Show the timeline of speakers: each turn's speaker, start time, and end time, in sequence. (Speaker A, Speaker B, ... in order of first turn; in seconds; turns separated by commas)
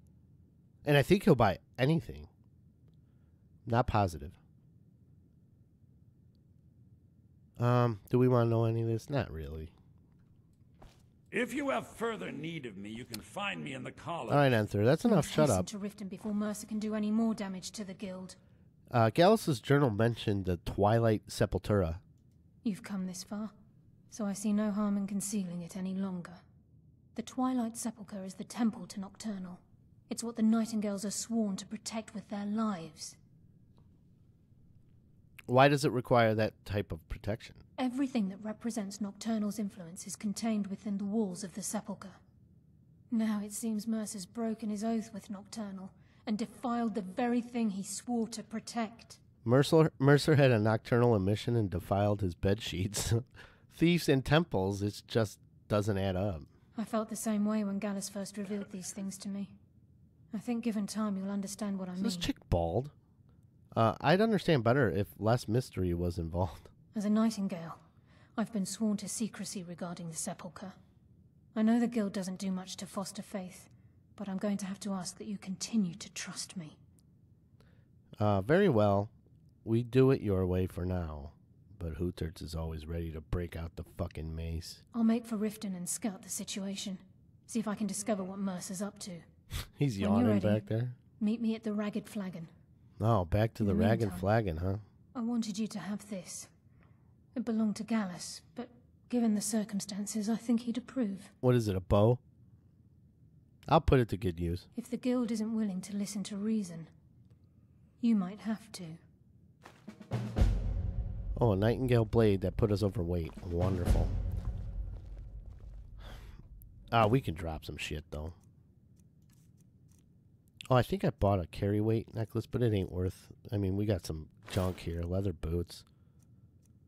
Speaker A: 0.8-2.3, Speaker A: 3.7-4.4, Speaker A: 7.6-9.7, Speaker B: 11.3-14.5, Speaker A: 14.3-15.7, Speaker C: 15.0-18.4, Speaker A: 18.9-22.0, Speaker C: 22.6-23.5, Speaker C: 24.1-26.4, Speaker C: 27.1-33.2, Speaker A: 35.5-37.6, Speaker C: 37.8-42.2, Speaker C: 43.1-49.2, Speaker A: 49.5-56.5, Speaker C: 56.8-59.5, Speaker C: 60.3-62.3, Speaker A: 62.0-62.9, Speaker A: 63.8-66.7, Speaker C: 66.9-67.8, Speaker C: 68.4-70.8, Speaker C: 71.5-76.8, Speaker A: 78.2-79.1, Speaker A: 79.7-84.8, Speaker C: 84.9-89.3, Speaker A: 89.8-91.0, Speaker C: 90.0-92.5, Speaker A: 93.0-94.8, Speaker C: 93.6-94.3, Speaker C: 95.1-96.5, Speaker C: 97.3-101.3, Speaker A: 101.4-102.2, Speaker A: 103.7-104.7, Speaker C: 104.8-106.9, Speaker C: 108.0-109.0, Speaker A: 111.4-114.2, Speaker A: 116.9-118.3, Speaker A: 120.7-125.8